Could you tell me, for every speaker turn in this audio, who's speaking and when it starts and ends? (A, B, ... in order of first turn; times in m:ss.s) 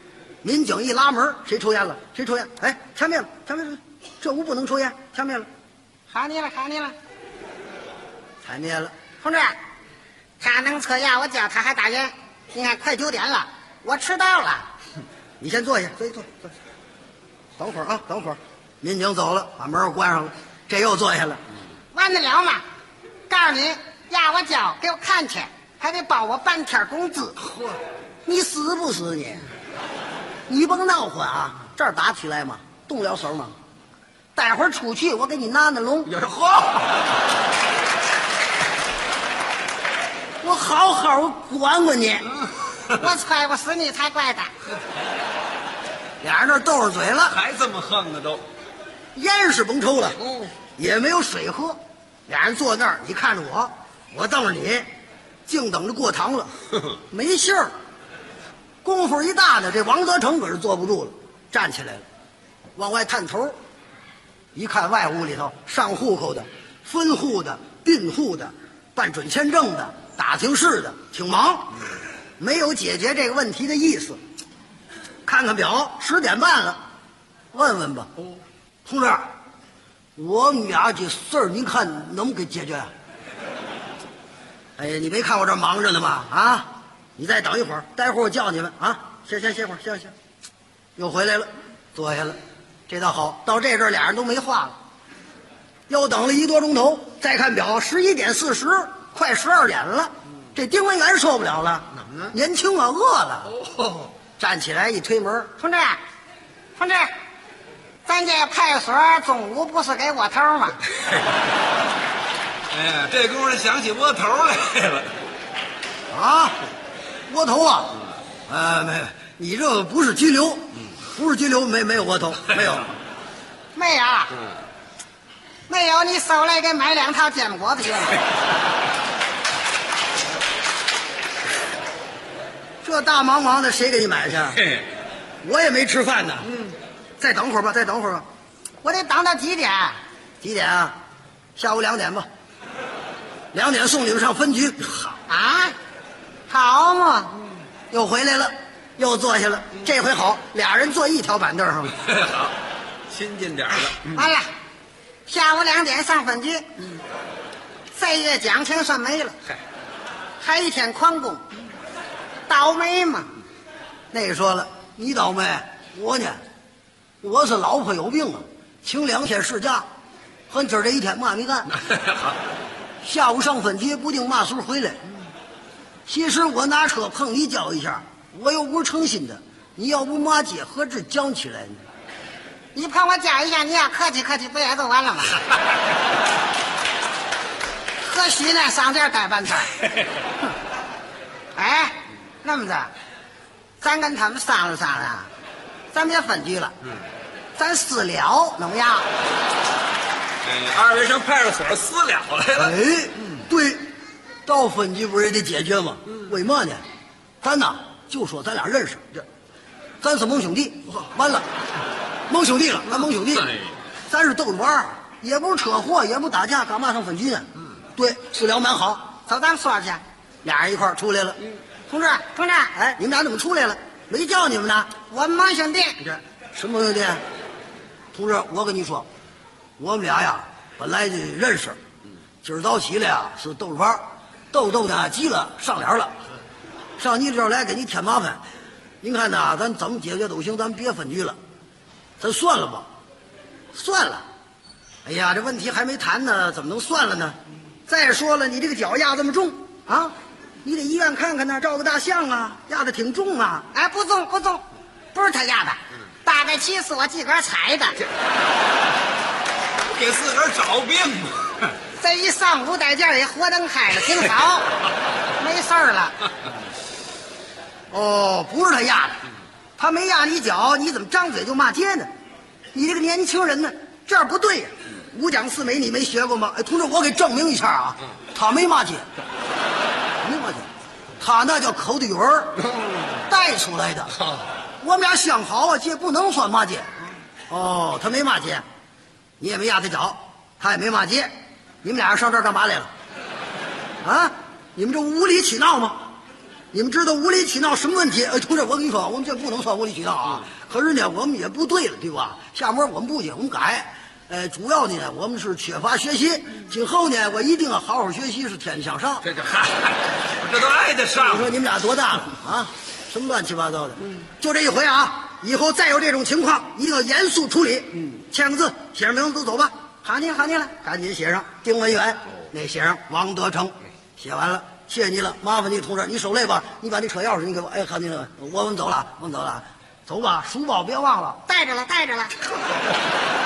0:00.4-0:05.5 A
0:06.1-0:07.0 B
0:08.4-0:08.9 A
0:09.2-0:09.6 B
0:10.4-0:14.7 B
0:15.4-0:16.5 A
0:17.6-0:21.4 A
0:21.9-0:22.6 B
0:23.3-0:27.4 B
0:28.2-0:29.5 A
0:30.5-0:33.6 A
0:34.3-0:36.2 A
0:36.1-0:36.9 C
0:40.4-0:42.4 A
0:42.9-0:44.5 B
0:46.2-0:47.4 A
0:47.3-0:48.4 C
0:49.1-0:50.2 A
0:50.2-0:50.5 C
0:50.8-0:54.9 A
0:55.5-0:56.5 A
0:57.1-0:57.7 A
0:58.8-1:02.0 A
1:02.8-1:03.6 A
1:04.5-1:11.8 A
1:12.4-1:14.2 A
1:15.2-1:16.8 A
1:17.5-1:18.1 A
1:18.8-1:19.3 A
1:20.2-1:22.9 A
1:24.8-1:30.1 A
1:31.0-1:34.8 A
1:35.9-1:43.5 A
1:43.6-1:44.1 C
1:44.4-1:45.5 A
1:45.6-1:46.0 B
1:46.8-1:47.1 B
1:48.0-1:50.8 B
1:52.7-1:55.1 C
1:56.1-1:56.6 A
1:57.3-2:03.0 A
2:03.7-2:04.4 B
2:05.7-2:08.2 B
2:12.8-2:14.7 A
2:15.4-2:18.2 A
2:18.8-2:20.0 B
2:20.4-2:20.9 A
2:21.6-2:22.3 A
2:23.5-2:25.0 A
2:25.3-2:25.8 B
2:26.5-2:27.4 B
2:27.9-2:32.0 A
2:32.0-2:32.5 C
2:33.1-2:34.1 C
2:33.9-2:34.5 B
2:35.2-2:37.0 B
2:37.9-2:39.4 B
2:40.4-2:41.4 B
2:42.5-2:43.3 B
2:44.1-2:46.4 A
2:47.2-2:49.9 A
2:50.5-2:51.7 A
2:53.0-2:55.0 A
2:56.1-3:01.8 A
3:02.7-3:05.4 B
3:08.0-3:09.8 B
3:11.5-3:12.9 B
3:13.8-3:15.3 B
3:15.9-3:16.7 B
3:17.6-3:19.0 B
3:20.4-3:22.8 C
3:22.6-3:23.8 A
3:24.4-3:26.8 A
3:27.4-3:29.0 A
3:30.0-3:31.4 A
3:32.3-3:39.2 A
3:39.2-3:40.0 B
3:40.4-3:41.4 A
3:41.9-3:42.7 B
3:42.8-3:45.0 A
3:45.0-3:46.1 B
3:46.2-3:47.2 A
3:48.1-3:49.1 A
3:49.8-3:51.8 A
3:52.4-3:56.1 A
3:57.0-3:58.4 A
3:59.0-4:01.4 A
4:02.2-4:02.9 A
4:03.7-4:04.2 A
4:05.0-4:13.7 A
4:13.7-4:18.0 B
4:19.9-4:21.7 C
4:22.0-4:24.7 B
4:25.3-4:26.2 B
4:27.9-4:29.2 A
4:29.8-4:32.1 A
4:32.7-4:39.0 A
4:40.2-4:40.7 A
4:41.2-4:42.6 A
4:43.2-4:44.2 A
4:44.8-4:48.6 A
4:49.4-4:51.3 A
4:51.8-4:52.9 A
4:54.0-4:56.1 A
4:56.7-5:09.2 A
5:09.2-5:11.5 C
5:11.2-5:31.4 A
5:31.5-5:32.4 B